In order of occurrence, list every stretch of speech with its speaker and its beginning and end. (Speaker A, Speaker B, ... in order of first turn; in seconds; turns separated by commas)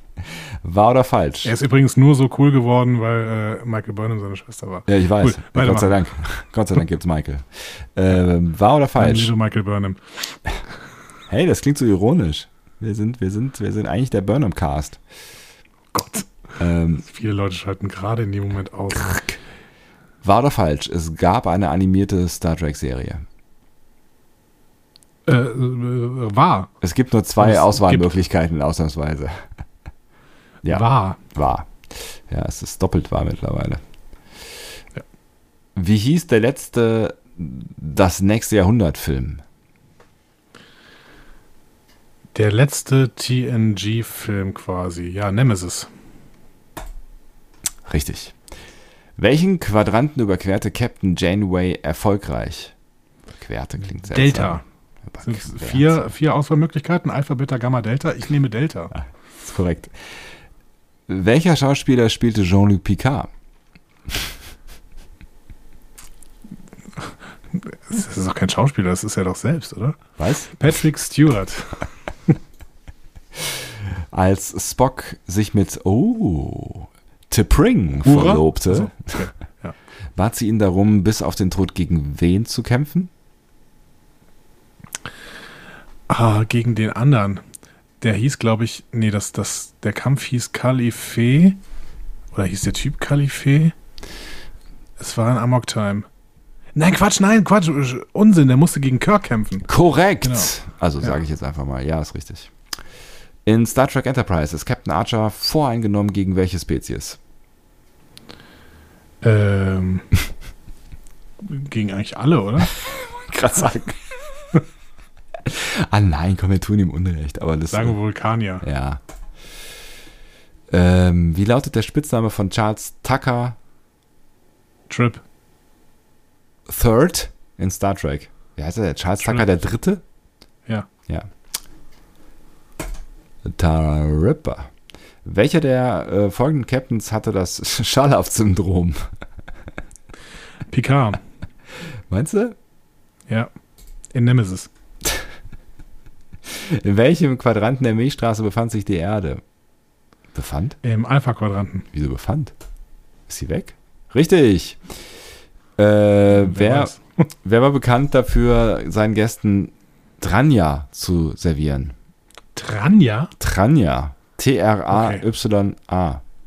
Speaker A: 0.6-1.6, Speaker B: 1.4-6.0, Speaker A: 4.9-9.3, Speaker B: 9.0-10.4, Speaker A: 11.3-15.0, Speaker B: 15.9-16.4, Speaker A: 16.6-17.1, Speaker B: 17.0-19.4, Speaker A: 20.2-23.2, Speaker B: 25.3-26.7, Speaker A: 26.8-29.5, Speaker B: 27.4-28.1, Speaker A: 30.6-33.8, Speaker B: 30.7-31.2, Speaker A: 35.8-39.4, Speaker B: 42.4-45.9, Speaker A: 47.9-48.4, Speaker A: 49.2-52.7, Speaker A: 53.4-56.0, Speaker B: 54.1-54.6, Speaker B: 55.2-58.9, Speaker A: 58.9-60.0, Speaker A: 61.1-63.3, Speaker B: 67.5-72.3, Speaker A: 70.2-70.5, Speaker A: 74.1-79.2, Speaker B: 78.0-79.8, Speaker A: 80.2-83.1, Speaker B: 86.1-87.4, Speaker B: 88.0-91.6, Speaker B: 92.3-93.8, Speaker B: 95.0-96.1, Speaker B: 96.8-99.7, Speaker A: 99.7-102.5, Speaker B: 100.2-101.2, Speaker A: 103.5-107.2, Speaker B: 109.2-110.1, Speaker B: 111.4-112.7, Speaker A: 112.7-114.0, Speaker A: 115.5-118.0, Speaker B: 117.7-118.7, Speaker A: 118.6-119.0, Speaker A: 120.7-123.6, Speaker B: 124.9-125.2, Speaker A: 126.7-130.0, Speaker A: 133.4-134.7, Speaker A: 135.2-139.1, Speaker B: 140.7-141.2, Speaker A: 142.1-142.6, Speaker B: 144.1-144.7, Speaker A: 146.5-149.4, Speaker A: 150.3-150.8, Speaker B: 150.8-151.9, Speaker A: 151.9-152.5, Speaker A: 153.3-154.8, Speaker A: 155.8-156.9, Speaker B: 156.4-157.0, Speaker A: 157.4-161.9, Speaker B: 162.6-163.3, Speaker A: 163.4-166.2, Speaker B: 164.9-165.2